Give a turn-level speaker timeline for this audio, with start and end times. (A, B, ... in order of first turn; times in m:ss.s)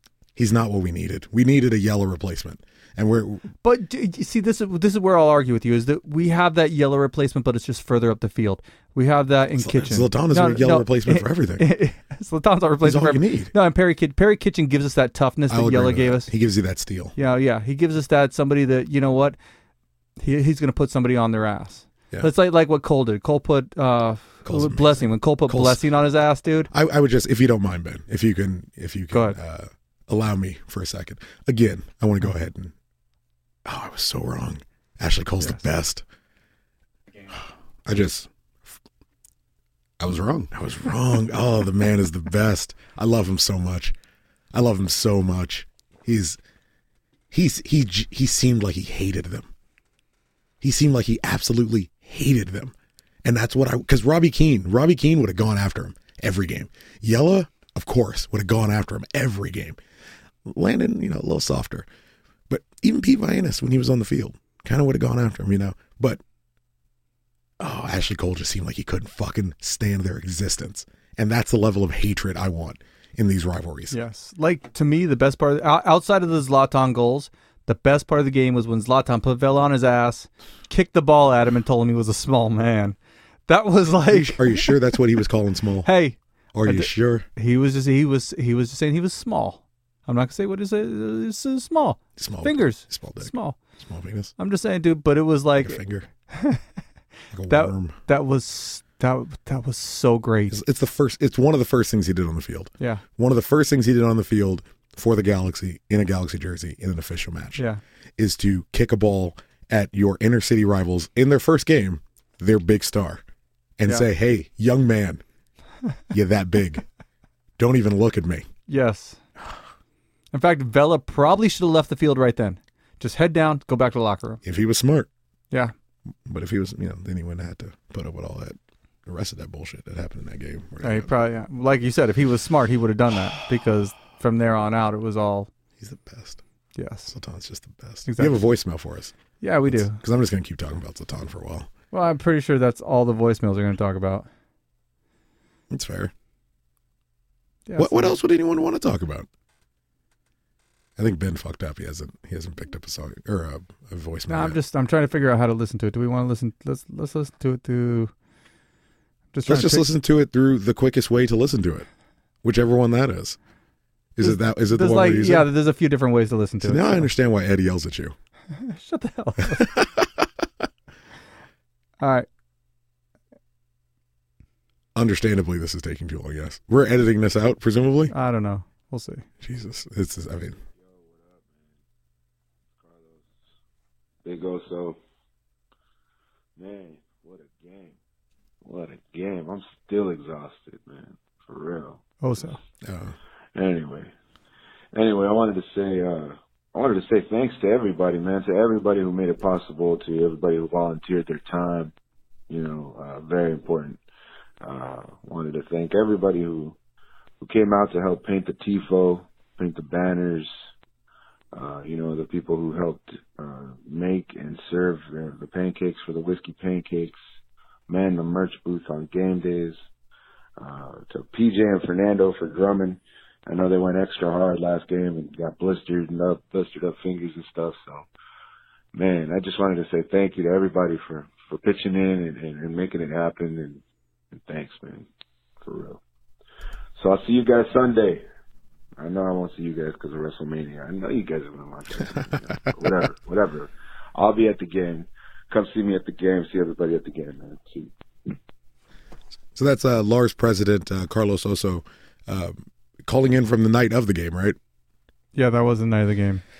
0:00.4-0:03.5 A
0:03.6-0:16.3 B
0:09.6-0:11.6 A
0:12.8-0:13.5 A
0:15.5-0:17.1 A
0:17.2-0:19.4 B
0:20.2-0:26.7 B
0:24.4-0:25.8 A
0:26.7-0:32.7 A
0:29.1-0:29.4 B
0:33.6-0:36.0 A
0:37.4-0:38.8 A
0:40.0-0:43.9 A
0:44.5-0:46.4 A
0:47.3-0:49.5 A
0:50.6-0:59.8 A
1:00.4-1:01.9 A
1:02.5-1:06.2 A
1:07.6-1:14.0 A
1:13.9-1:23.0 B
1:23.5-1:24.7 B
1:24.1-1:25.9 A
1:25.8-1:33.6 B
1:26.5-1:27.3 A
1:32.2-1:34.3 A
1:34.4-1:35.8 B
1:35.6-1:36.1 A
1:36.3-1:36.6 B
1:37.3-1:38.0 A
1:37.5-1:40.6 B
1:40.5-1:47.6 A
1:48.2-1:53.2 A
1:53.8-1:55.2 A
1:56.1-1:56.8 A
1:57.6-1:58.5 A
1:58.7-1:59.2 B
2:00.3-2:04.4 B
2:04.4-2:05.1 A
2:06.2-2:11.1 A
2:10.8-2:15.5 B
2:15.8-2:16.4 A
2:16.8-2:17.1 B
2:17.1-2:19.1 A
2:18.0-2:18.4 B
2:19.4-2:20.0 B
2:19.6-2:21.7 A
2:21.9-2:24.3 B
2:25.7-2:26.1 A
2:27.7-2:28.2 B
2:27.8-2:29.3 A
2:31.0-2:34.6 A
2:34.3-2:38.1 B
2:39.3-2:39.9 B
2:39.4-2:41.8 A
2:42.4-2:43.4 A
2:44.2-2:45.5 A
2:44.2-2:47.1 B
2:46.6-2:48.1 A
2:48.5-2:49.7 B
2:49.5-2:50.2 A
2:52.0-2:52.3 B
2:54.9-2:58.1 A
2:58.1-2:59.2 B
2:59.4-3:00.6 A
3:00.7-3:01.8 C
3:02.7-3:03.4 C
3:04.2-3:05.0 C
3:06.6-3:08.0 C
3:08.6-3:12.5 C
3:12.2-3:12.6 B
3:12.8-3:13.1 A
3:13.5-3:14.1 C
3:14.9-3:21.9 C
3:22.5-3:24.0 C
3:24.6-3:26.8 C
3:27.4-3:30.5 C
3:31.5-3:37.2 C
3:37.9-3:39.8 C
3:40.6-3:48.1 C
3:48.9-3:55.1 C
3:55.6-3:56.0 C
3:57.0-3:58.2 C
3:59.0-4:08.3 C
4:09.5-4:14.6 A
4:15.3-4:16.4 B